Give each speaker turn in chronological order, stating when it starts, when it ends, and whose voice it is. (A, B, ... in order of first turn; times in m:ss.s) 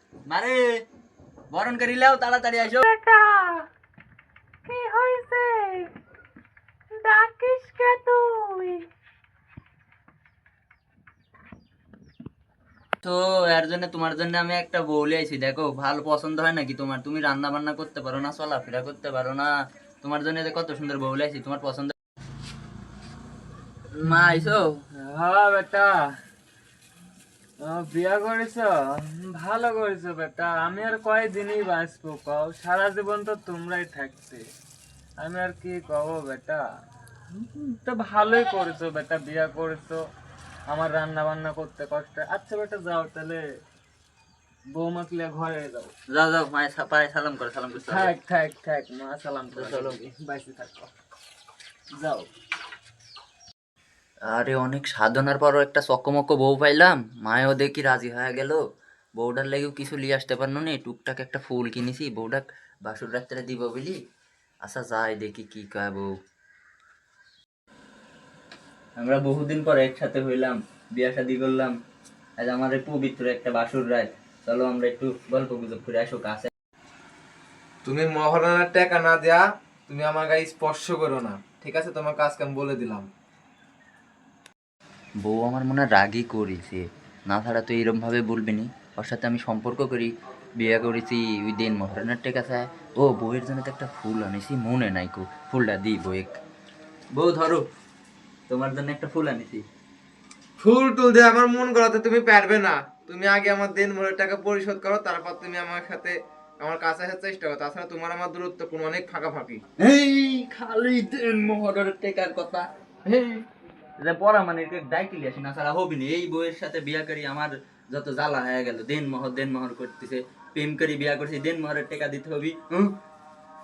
0:00.3-0:00.8 A
0:01.5-0:02.8 A
0:02.8-0:03.6 B
0:04.6-0:05.9 B
0:07.0-0:08.8 B
0:13.0-0:19.5 A
0:20.0-0:21.9 A
0:24.0-0:24.8 A
0:24.9-0:26.0 B
0:27.6-0:34.4 B
0:35.2-0:36.6 B
0:37.3-0:40.0 B
0:40.7-0:43.4 B
0:44.7-0:45.9 B
0:46.1-0:48.1 A
0:47.8-0:50.9 B
0:49.5-0:50.0 A
0:52.0-0:52.3 B
0:54.3-0:58.6 A
0:59.2-1:04.0 A
1:04.6-1:06.1 A
1:09.0-1:11.8 A
1:12.4-1:16.5 A
1:17.8-1:23.1 C
1:25.2-1:36.4 A
1:37.1-1:37.6 A
1:38.5-1:39.6 A
1:40.6-1:49.6 C
1:49.8-1:53.4 A
1:54.0-2:03.0 A